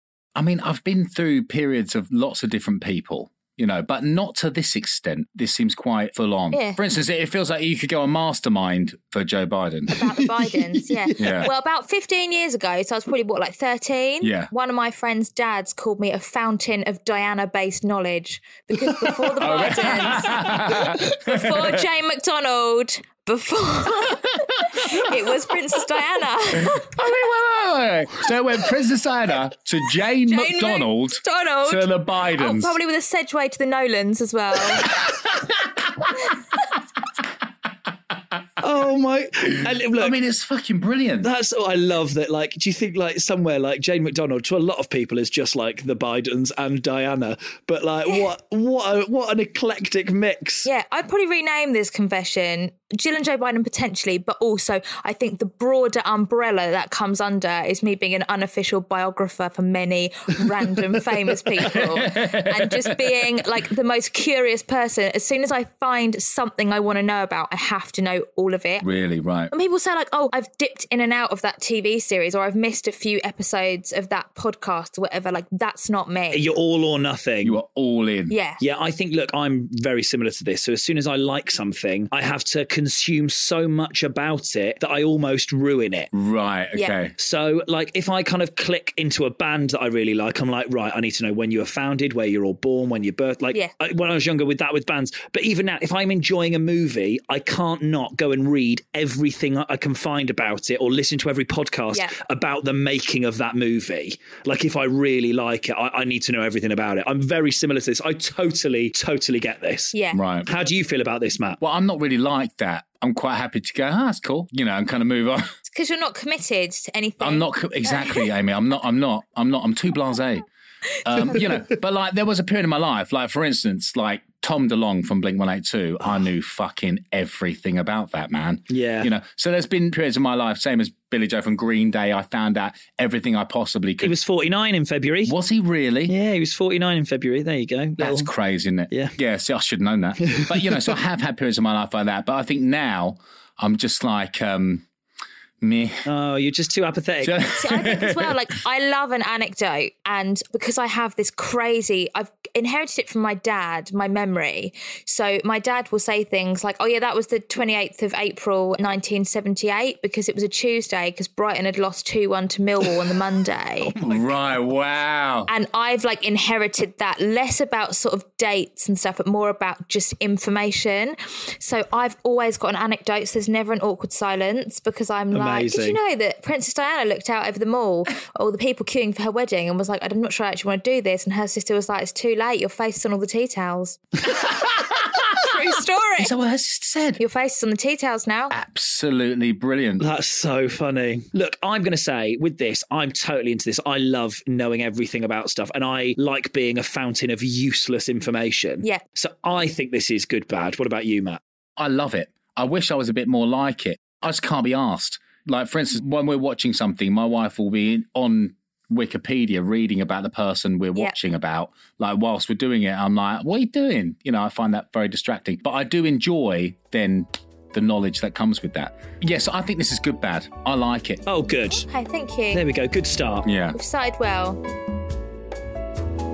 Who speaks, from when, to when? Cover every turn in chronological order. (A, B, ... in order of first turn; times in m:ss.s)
0:00.3-0:10.0 A
0:06.5-0:06.8 B
0:09.9-0:26.9 B
0:10.2-0:11.4 C
0:11.2-0:11.5 A
0:14.2-0:14.5 A
0:19.4-0:21.8 A
0:26.6-0:32.8 A
0:30.2-0:34.9 B
0:34.8-0:36.0 A
0:38.6-0:40.2 C
0:39.9-0:41.3 A
0:41.2-0:50.7 C
0:50.6-1:08.8 B
1:01.6-1:03.2 A
1:08.8-1:09.5 A
1:09.5-1:16.4 B
1:16.3-1:17.6 C
1:17.4-1:18.4 A
1:18.3-1:18.6 B
1:18.6-1:26.1 C
1:26.1-1:27.1 A
1:27.2-1:49.9 C
1:49.9-1:50.2 B
1:50.1-1:50.5 A
1:50.4-1:51.6 C
1:51.6-1:55.5 A
1:55.7-1:58.3 B
1:57.2-2:00.4 A
2:01.0-2:14.1 A
2:08.7-2:09.1 C
2:14.0-2:15.3 C
2:15.2-2:16.1 A
2:16.1-2:18.3 C
2:18.0-2:24.8 A
2:20.2-2:20.9 C
2:25.6-2:26.0 A
2:26.0-2:27.4 C
2:27.2-2:28.3 A
2:27.6-2:43.9 B
2:43.8-2:44.3 C
2:44.0-2:45.5 A
2:45.5-3:04.0 B
2:55.3-2:56.0 C
3:04.7-3:05.3 A
3:05.4-3:06.3 B
3:06.2-3:07.2 A
3:07.2-3:08.5 B
3:08.5-3:10.0 A
3:10.0-3:21.4 C
3:21.8-3:41.2 A
3:41.2-3:41.9 C
3:41.7-3:42.6 B
3:42.5-3:43.5 C
3:43.4-3:43.8 A
3:43.7-3:44.6 B